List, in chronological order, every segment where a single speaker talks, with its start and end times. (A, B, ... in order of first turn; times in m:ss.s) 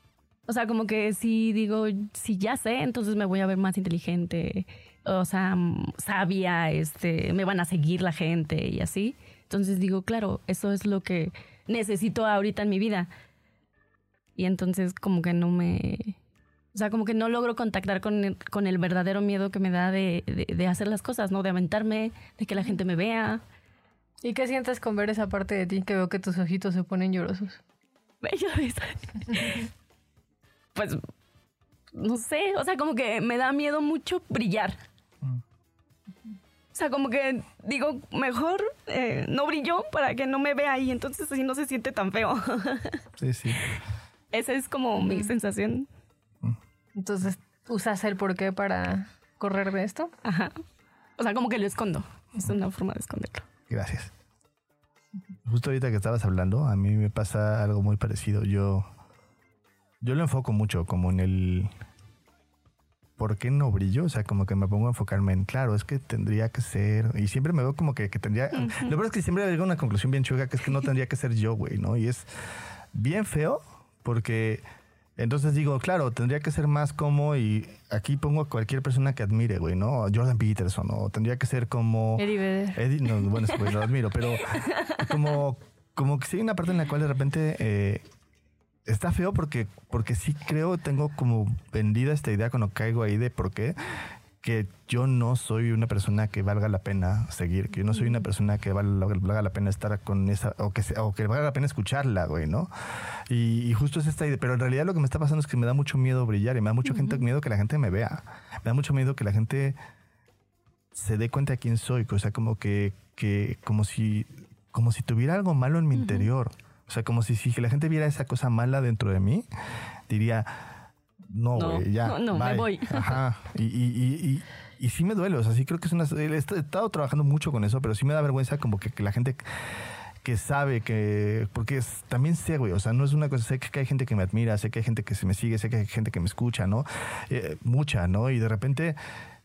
0:00.5-0:13.1 A
0:14.4-0:16.2 A
0:16.7-0:23.4 A
0:24.2-0:27.6 B
0:28.2-0:29.7 A
0:30.7-0:31.0 A
0:31.9-0:34.8 A
0:36.7-0:43.0 A
0:43.2-0:43.6 C
0:44.3-0:45.9 A
0:47.0-0:50.1 B
0:50.2-0:50.6 A
0:51.2-0:53.4 A
0:53.7-0:54.1 C
0:55.4-0:58.9 C
1:00.0-1:01.7 C
1:03.2-1:12.3 C
1:12.9-1:14.6 C
1:15.2-1:28.0 C
1:22.2-1:22.8 B
1:24.4-1:25.1 A
1:28.8-1:33.8 C
1:34.4-1:42.7 C
1:43.3-1:49.8 C
1:50.9-1:59.5 C
1:56.0-1:56.3 A
2:00.1-2:09.7 C
2:01.5-2:03.2 A
2:10.2-2:19.0 C